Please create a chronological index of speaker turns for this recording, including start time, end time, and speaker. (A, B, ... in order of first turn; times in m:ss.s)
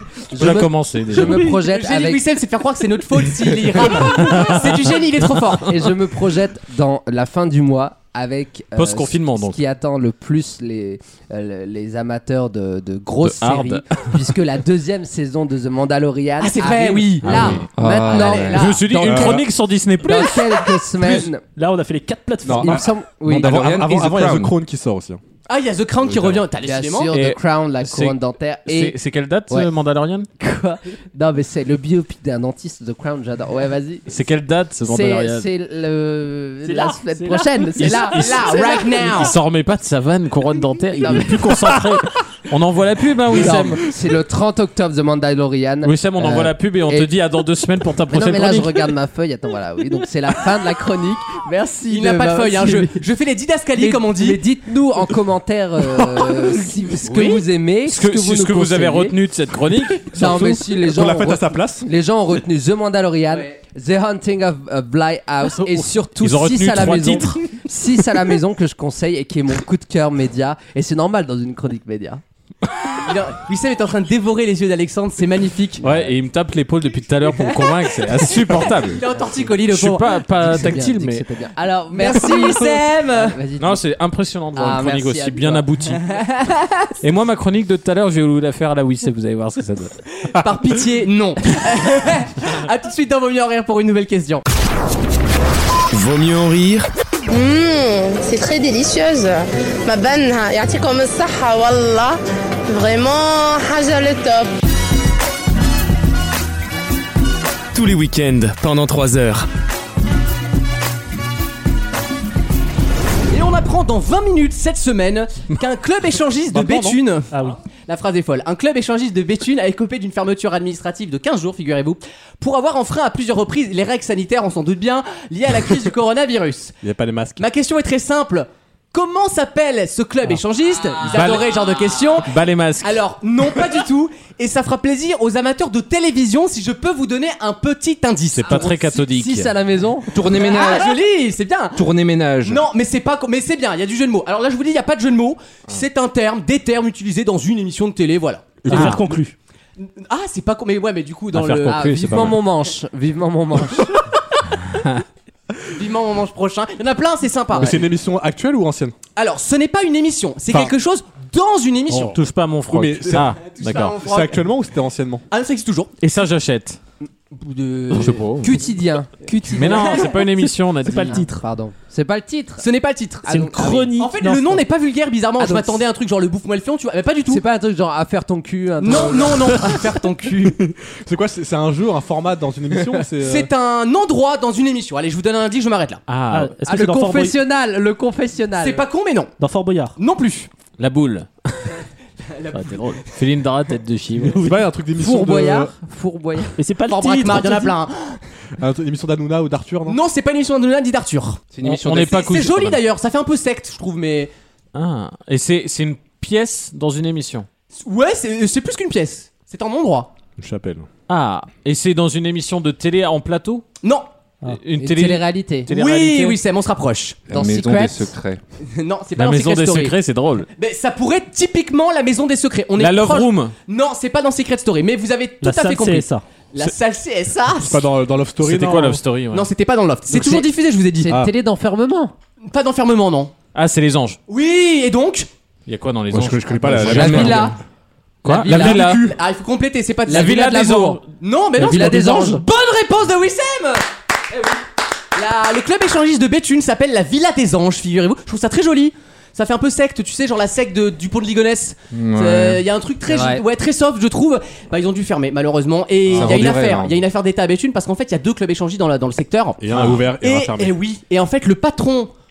0:00.3-0:02.2 A
0:00.4-0:01.4 B
0:01.4-0:05.7 C
0:04.2-0:04.7 B
0:05.7-0:19.4 A
0:08.8-0:09.6 B
0:13.2-0:14.1 B
0:16.4-0:17.5 C
0:17.2-0:17.7 B
0:17.7-0:18.7 D
0:18.0-0:18.8 C
0:18.5-0:20.6 B
0:19.0-0:19.4 E
0:20.0-0:21.4 A
0:21.6-0:22.8 F
0:22.5-0:25.2 E
0:22.5-0:23.7 A
0:23.3-0:24.6 D
0:25.5-0:27.1 C
0:26.0-0:26.4 E
0:26.6-0:29.0 A
0:27.1-0:30.3 B
0:30.4-0:34.1 A
0:34.1-0:35.5 B
0:34.9-0:39.3 A
0:36.6-0:37.7 F
0:37.8-0:38.5 B
0:37.9-0:39.3 C
0:39.1-0:43.8 B
0:40.9-0:41.7 A
0:43.3-0:47.1 A
0:45.8-0:48.9 B
0:48.1-0:53.0 A
0:51.9-0:54.4 C
0:53.8-0:59.2 A
0:57.1-0:57.4 C
0:57.9-1:00.6 B
1:00.1-1:12.2 A
1:00.8-1:01.9 E
1:05.6-1:07.4 B
1:13.0-1:15.8 C
1:15.8-1:19.0 B
1:15.8-1:16.1 A
1:18.5-1:20.2 C
1:19.7-1:21.2 B
1:20.3-1:23.8 A
1:21.9-1:23.4 C
1:23.6-1:26.0 B
1:24.5-1:25.7 A
1:26.1-1:26.9 C
1:27.0-1:29.9 B
1:30.3-1:34.4 C
1:35.9-1:36.9 G
1:37.3-1:44.5 H
1:47.7-1:49.5 G
1:53.3-1:57.3 C
1:56.5-1:57.0 E
1:57.3-1:57.6 F
1:57.9-2:06.8 C
2:06.8-2:07.4 E
2:07.4-2:18.8 C
2:11.1-2:11.6 B
2:12.2-2:13.0 B
2:18.3-2:19.6 B
2:18.4-2:20.1 A
2:20.1-2:20.9 D
2:20.2-2:21.9 C
2:21.8-2:22.7 D
2:22.4-2:29.0 C
2:28.6-2:29.1 E
2:28.6-2:29.4 F
2:29.8-2:31.8 C
2:31.3-2:32.4 B
2:31.7-2:33.9 A
2:35.7-2:37.9 C
2:37.6-2:39.0 E
2:39.2-2:42.2 C
2:41.9-2:44.0 B
2:42.7-2:45.2 E
2:43.4-2:44.5 C
2:45.3-2:45.9 C
2:46.0-2:46.8 B
2:47.0-2:50.1 A
2:47.9-2:48.6 B
2:49.5-2:51.2 B
2:50.8-2:51.4 F
2:51.0-2:52.7 A
2:52.6-2:53.3 C
2:53.2-2:53.9 A
2:53.3-2:54.6 F
2:53.9-2:57.4 C
2:55.4-2:55.8 A
2:57.3-2:59.7 A
2:58.8-3:00.6 C
3:00.4-3:03.5 E
3:03.2-3:06.0 C
3:06.1-3:06.5 B
3:06.3-3:07.4 F
3:06.6-3:08.8 A
3:08.6-3:09.3 C
3:09.4-3:10.0 F
3:10.0-3:10.5 C
3:10.8-3:11.8 B
3:12.3-3:13.0 C
3:12.5-3:14.4 B
3:14.4-3:15.7 E
3:15.0-3:16.6 A
3:16.6-3:17.8 F
3:16.9-3:18.2 C
3:18.6-3:20.0 E
3:19.8-3:24.3 C
3:21.5-3:22.2 D
3:21.6-3:22.8 B
3:24.7-3:27.5 B
3:27.7-3:30.1 C
3:30.4-3:30.9 E
3:31.1-3:33.7 B
3:33.8-3:34.1 C
3:34.4-3:36.4 B
3:34.8-3:35.7 A
3:35.7-3:37.2 C
3:37.3-3:38.4 D
3:37.3-3:38.1 A
3:38.6-3:39.9 C
3:39.2-3:40.5 B
3:40.6-3:47.9 C
3:42.8-3:43.5 B
3:45.4-3:46.2 F
3:47.6-3:49.0 E
3:48.4-3:49.5 B
3:49.3-3:51.1 C
3:50.1-3:52.1 A
3:52.5-3:53.3 C
3:53.5-3:54.2 B
3:54.3-3:55.3 C
3:55.7-3:57.5 B
3:56.1-3:57.6 E
3:56.9-3:57.6 A
3:58.2-3:59.0 B
3:58.3-4:22.1 C
3:58.5-3:58.8 A
3:58.5-3:59.2 E
4:00.1-4:01.0 B
4:00.1-4:01.0 A
4:01.6-4:02.4 A
4:11.9-4:12.6 D
4:13.1-4:13.4 A
4:16.1-4:17.0 D
4:16.1-4:16.4 E
4:19.6-4:20.8 E
4:19.7-4:20.0 B